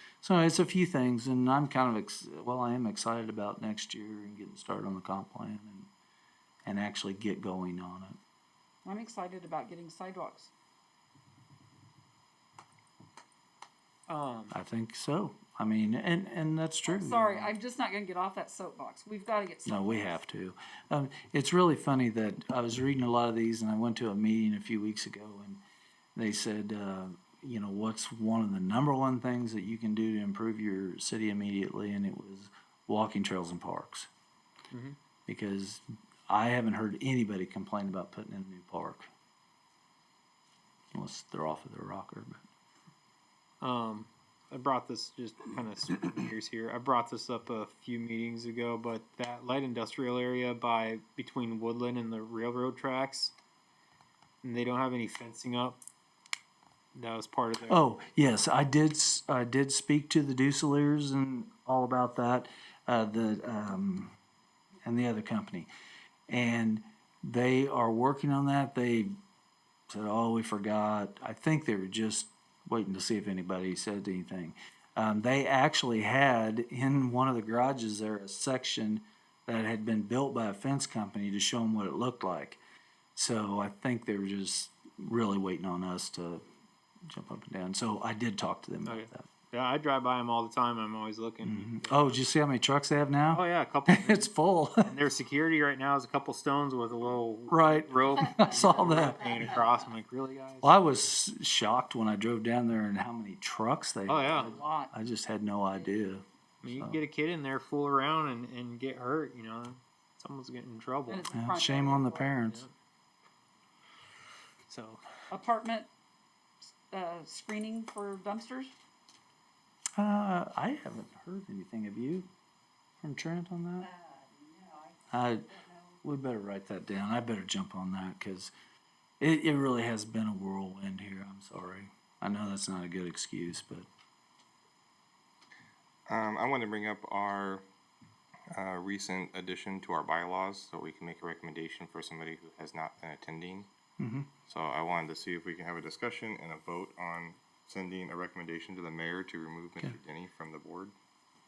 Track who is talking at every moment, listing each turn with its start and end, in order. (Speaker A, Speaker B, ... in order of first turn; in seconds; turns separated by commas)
Speaker A: 0.2-5.9, Speaker A: 6.7-8.2, Speaker B: 8.8-10.5, Speaker C: 14.1-14.5, Speaker A: 14.5-17.5, Speaker B: 16.9-20.2, Speaker A: 19.7-25.6, Speaker A: 26.2-34.1, Speaker C: 34.7-35.0, Speaker A: 35.3-39.1, Speaker A: 40.9-42.4, Speaker C: 43.6-53.3, Speaker C: 54.4-55.8, Speaker C: 56.9-57.8, Speaker A: 57.7-64.1, Speaker A: 64.8-65.7, Speaker A: 66.3-69.1, Speaker A: 69.9-82.6, Speaker A: 83.2-86.4, Speaker A: 87.1-89.3, Speaker C: 88.9-92.2, Speaker A: 91.4-94.9, Speaker C: 93.3-100.7, Speaker A: 97.5-99.5, Speaker A: 100.6-107.0, Speaker C: 104.1-104.5, Speaker B: 104.3-104.9, Speaker C: 106.6-111.2, Speaker B: 111.1-112.3, Speaker A: 111.3-112.6, Speaker C: 112.5-112.7, Speaker C: 114.7-115.0, Speaker B: 115.3-115.9, Speaker B: 116.9-118.7, Speaker A: 120.0-122.3, Speaker A: 123.0-123.9, Speaker A: 125.1-128.5, Speaker A: 129.2-133.9, Speaker D: 136.1-137.7, Speaker D: 138.5-143.7, Speaker A: 144.0-144.3, Speaker D: 144.5-150.9